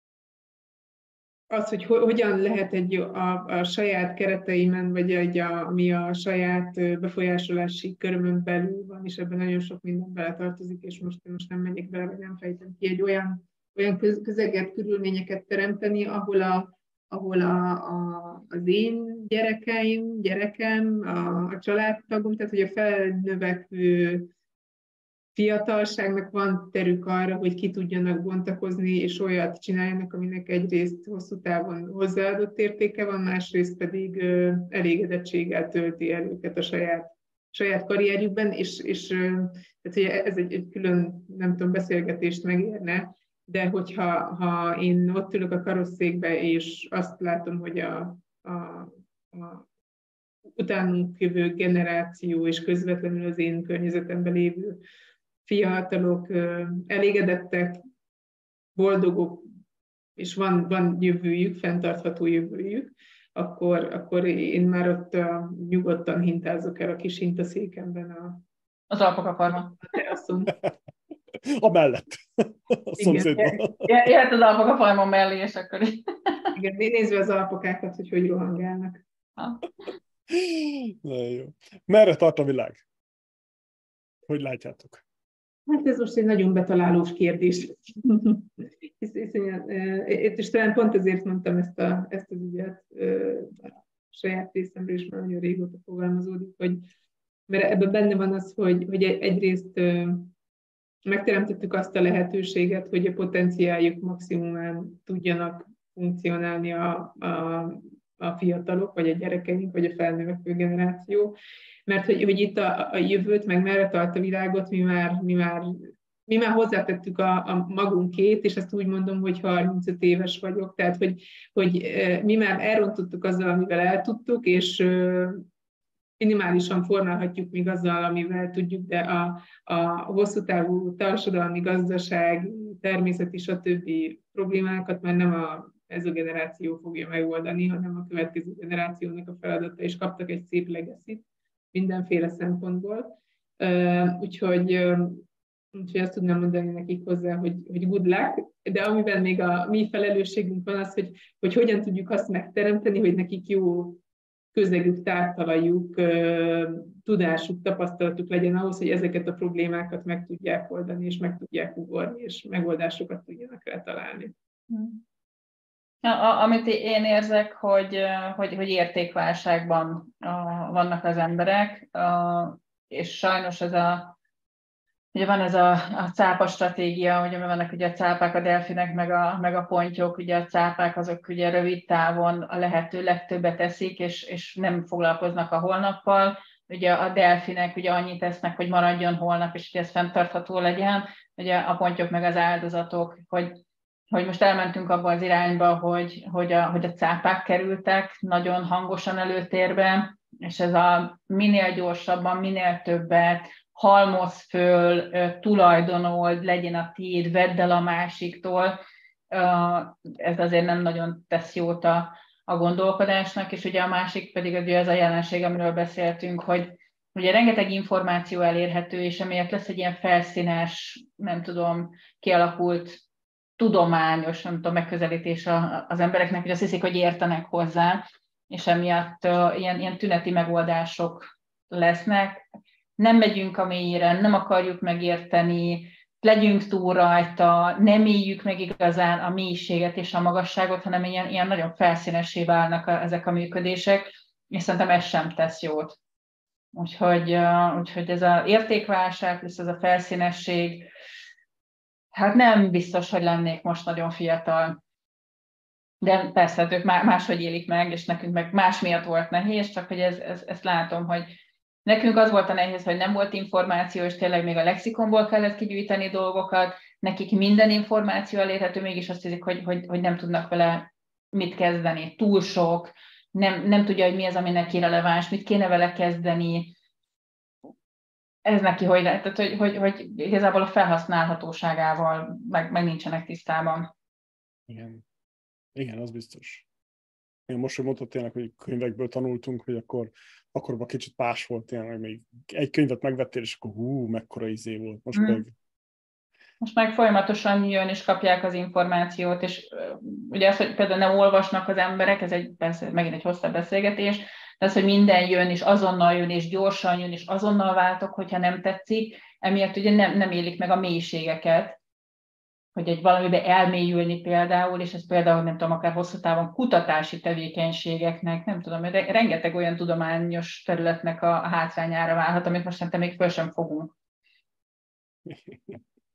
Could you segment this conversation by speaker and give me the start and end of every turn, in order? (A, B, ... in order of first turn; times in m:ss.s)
0:01.5-0:24.3 A
0:25.4-0:49.6 A
0:50.6-0:54.8 A
0:55.5-0:57.8 A
0:58.8-0:59.5 A
1:00.2-1:08.4 A
1:08.9-1:09.8 B
1:09.8-1:10.5 A
1:11.5-1:13.9 C
1:13.0-1:13.6 A
1:13.8-1:16.6 B
1:16.6-1:19.0 A
1:19.4-1:19.7 B
1:20.3-1:22.8 C
1:24.3-1:25.0 C
1:25.7-1:36.8 A
1:37.5-1:40.3 A
1:41.1-1:51.4 A
1:51.9-2:05.4 A
2:06.2-2:34.0 A
2:34.5-2:44.3 A
2:44.7-2:45.0 B
2:46.0-2:54.2 B
2:55.1-3:13.6 B
3:14.1-3:28.8 B
3:29.3-3:43.0 B
3:43.6-3:52.4 B
3:53.0-4:06.0 B
4:06.7-4:10.9 B
4:12.1-4:14.8 B
4:16.0-4:21.3 B
4:21.8-4:36.7 B
4:38.4-4:43.9 B
4:44.7-4:45.0 C
4:45.8-4:46.6 C
4:47.5-4:55.5 C
4:55.1-4:55.4 B
4:56.6-5:11.8 B
5:12.8-5:23.9 B
5:25.3-5:25.8 C